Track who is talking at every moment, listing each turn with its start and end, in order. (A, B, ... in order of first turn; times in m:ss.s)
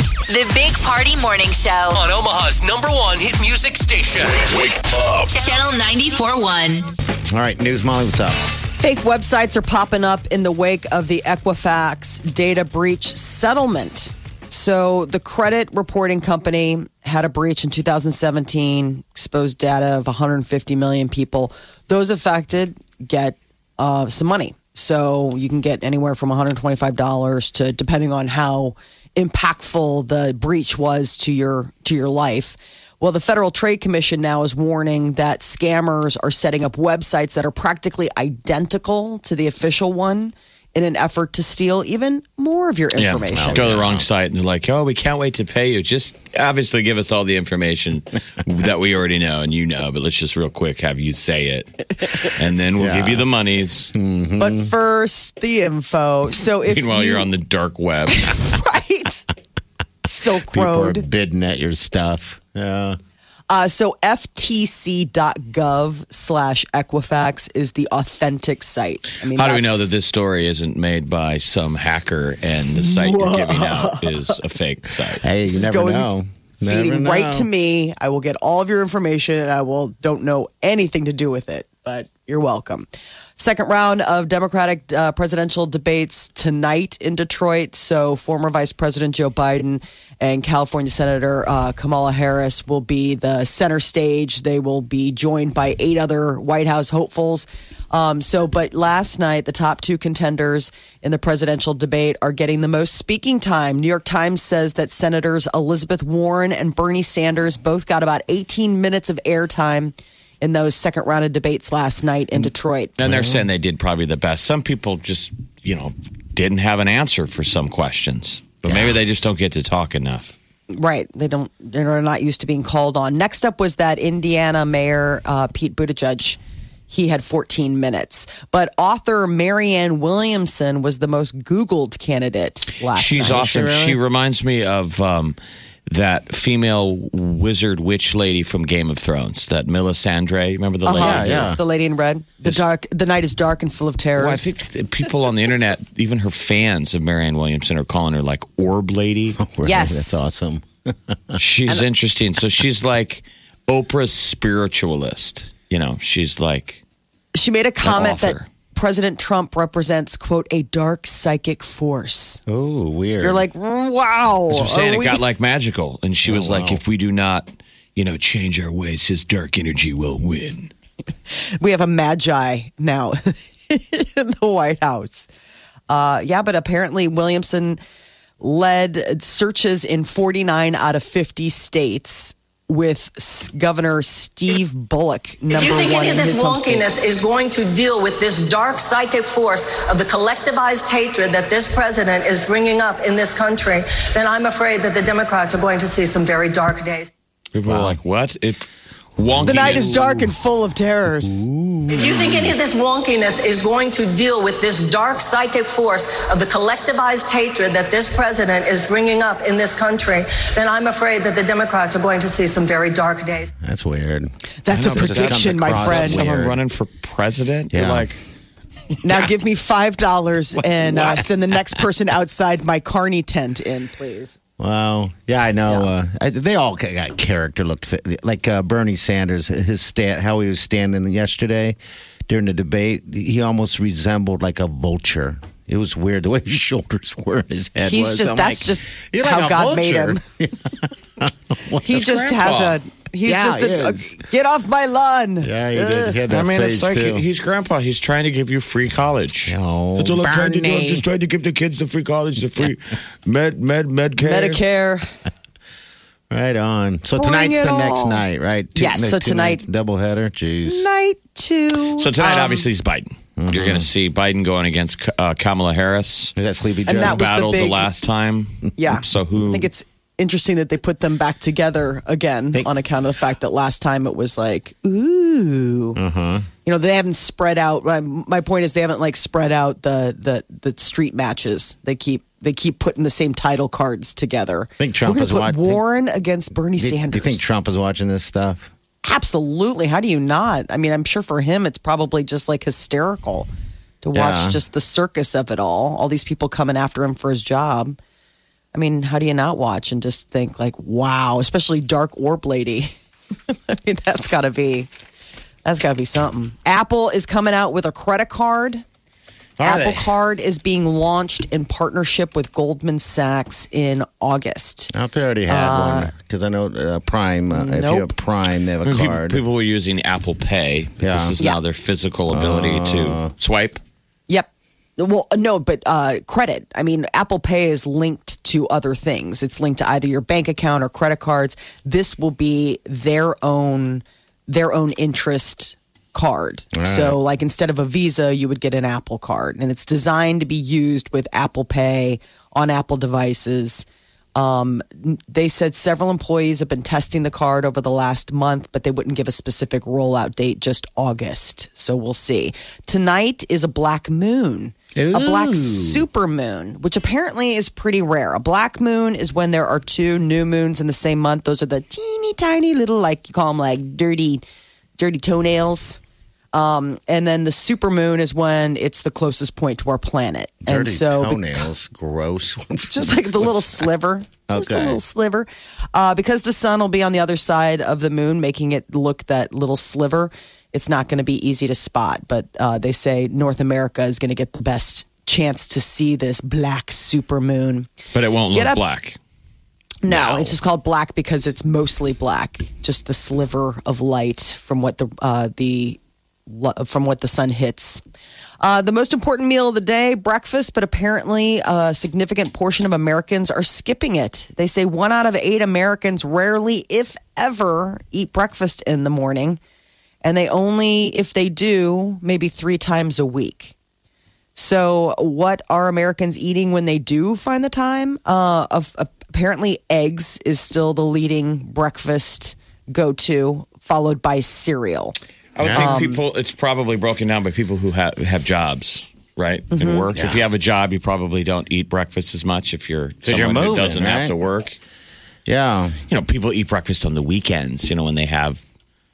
0:00.3-0:02.0 A
0:01.9-0:05.4 B
0:05.3-0:06.9 A
0:07.3-0:08.4 C
0:08.8-0:43.7 D
0:43.0-0:44.1 C
0:43.5-0:53.9 E
0:52.8-0:53.3 C
0:53.9-0:54.7 C
0:54.4-0:57.3 D
0:56.7-0:58.5 E
0:58.2-0:59.3 D
1:00.0-1:01.1 D
1:00.4-1:03.0 C
1:03.5-1:09.9 D
1:09.3-1:15.3 E
1:12.8-1:14.4 D
1:15.2-1:17.5 C
1:15.4-1:52.9 D
1:53.0-2:00.4 E
1:53.0-1:53.4 C
1:58.7-1:59.0 C
2:00.7-2:06.4 D
2:06.9-2:13.4 D
2:12.9-2:15.4 E
2:13.2-2:14.0 C
2:15.9-2:21.6 E
2:20.8-2:24.5 D
2:21.0-2:21.6 C
2:24.2-2:29.4 E
2:29.4-2:31.4 C
2:29.6-2:30.2 D
2:31.4-2:36.8 E
2:37.4-2:42.4 D
2:37.8-2:38.5 E
2:42.5-2:43.4 C
2:43.2-2:45.2 D
2:44.5-2:50.7 E
2:46.2-2:46.8 C
2:51.3-2:55.3 D
2:55.9-2:57.8 D
2:58.4-3:06.8 D
3:05.5-3:17.1 F
3:17.5-3:18.6 E
3:17.7-3:18.0 C
3:19.2-3:20.0 E
3:19.4-3:21.4 D
3:19.4-3:20.2 C
3:21.2-3:22.5 C
3:21.9-3:33.5 F
3:33.6-3:36.6 C
3:34.6-3:36.2 D
3:34.7-3:38.2 E
3:37.7-3:38.1 C
3:39.0-3:44.4 D
3:40.8-3:41.2 C
3:44.6-3:51.8 C
3:52.3-4:02.4 C
3:57.8-4:00.2 D
4:01.8-4:06.2 D
4:02.2-4:02.8 E
4:03.2-4:04.2 C
4:05.4-4:07.2 C
4:06.3-4:14.6 E
4:09.5-4:11.1 C
4:14.2-4:15.1 D
4:16.3-4:20.9 C
4:17.2-4:18.2 D
4:18.8-4:19.6 D
4:20.7-4:22.7 D
4:22.0-4:26.3 E
4:23.4-4:23.9 C
4:26.4-4:27.2 C
4:26.9-4:27.9 D
4:27.0-4:29.7 E
4:28.8-4:36.0 D
4:36.0-4:36.5 C
4:36.6-4:47.4 D
4:44.8-4:45.8 C
4:46.8-4:48.7 C
4:49.0-4:53.5 D
4:54.0-4:58.0 D
4:54.1-4:54.6 C
4:58.7-5:02.9 D
5:03.5-5:04.9 D
5:05.6-5:08.8 D
5:09.6-5:10.1 C
5:09.6-5:14.9 D
5:14.9-5:19.4 C
5:15.5-5:16.1 D
5:17.5-5:18.1 D
5:18.8-5:23.8 E
5:21.0-5:21.4 C
5:22.3-5:23.3 C
5:24.3-6:04.4 D
5:36.7-5:37.2 C
5:55.0-5:56.1 C
6:05.0-6:06.0 D
6:06.5-6:11.5 D
6:10.6-6:13.9 C
6:12.9-6:27.9 D
6:14.5-6:15.0 C
6:28.1-6:29.2 E
6:28.5-6:28.8 D
6:30.0-6:38.0 D
6:38.6-6:49.6 D
6:50.2-6:53.7 D
6:54.6-7:05.2 D
7:05.6-7:14.8 E
7:05.6-7:06.0 C
7:05.7-7:06.2 D
7:09.7-7:10.1 D
7:10.2-7:10.4 C
7:13.2-7:14.3 C
7:15.5-7:16.0 C
7:16.1-7:18.6 E